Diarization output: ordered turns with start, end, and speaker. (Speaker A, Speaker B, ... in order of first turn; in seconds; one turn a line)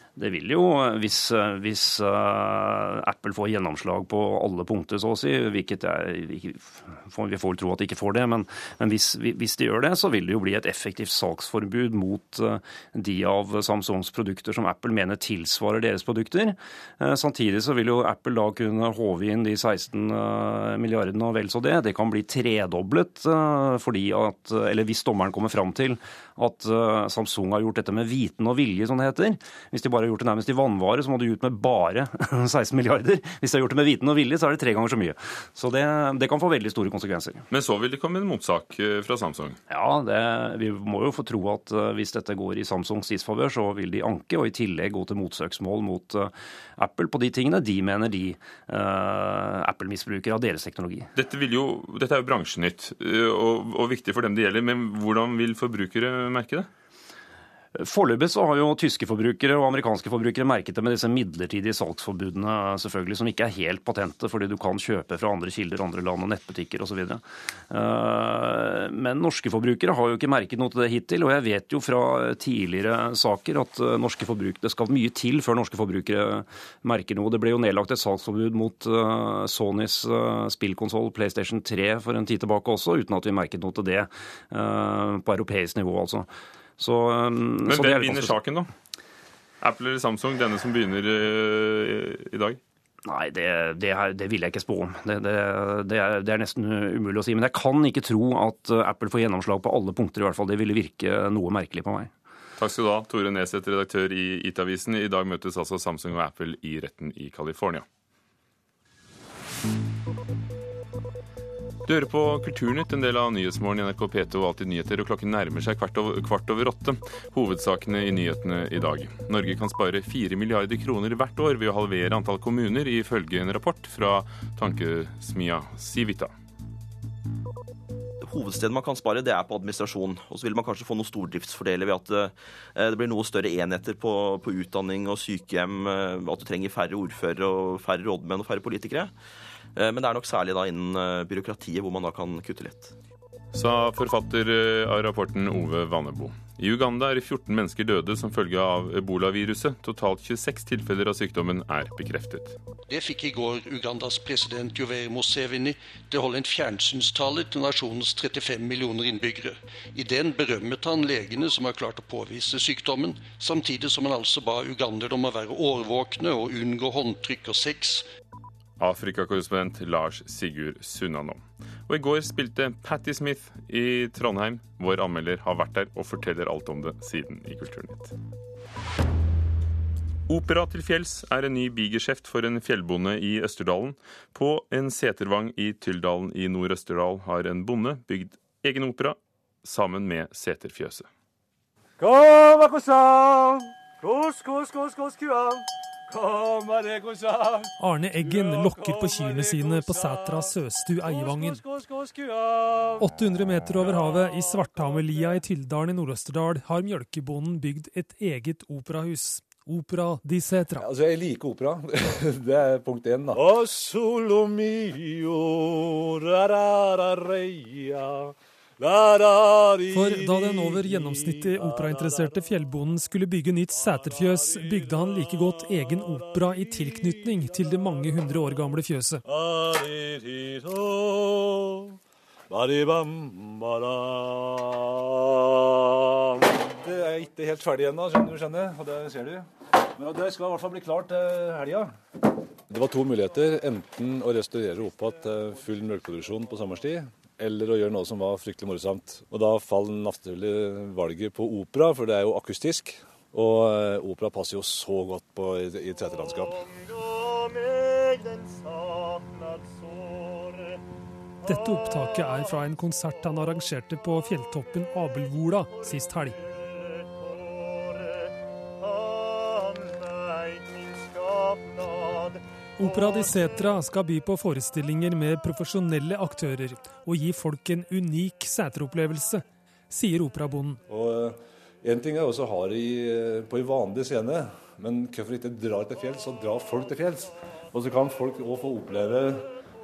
Speaker A: 0.2-37.4
Speaker B: 37.5-39.6
Speaker A: 39.7-51.1
Speaker B: 51.1-56.7
Speaker A: 57.7-86.3
Speaker A: 86.8-88.4
Speaker B: 87.7-88.7
Speaker B: 89.6-92.6
Speaker A: 93.0-102.1
Speaker B: 102.6-107.8
Speaker B: 111.9-126.3
Speaker C: 128.2-139.1
Speaker C: 139.8-142.9
Speaker B: 143.5-152.6
Speaker D: 152.9-168.1
Speaker B: 168.8-178.1
Speaker B: 180.3-191.1
Speaker E: 192.0-200.5
Speaker F: 197.8-201.6
Speaker E: 201.0-202.9
Speaker F: 203.0-210.9
Speaker E: 210.8-222.3
Speaker F: 219.9-229.2
Speaker E: 224.2-227.2
Speaker E: 229.2-231.9
Speaker E: 232.5-241.9
Speaker E: 242.7-256.7
Speaker F: 261.4-266.4
Speaker F: 272.8-280.8
Speaker E: 280.9-289.5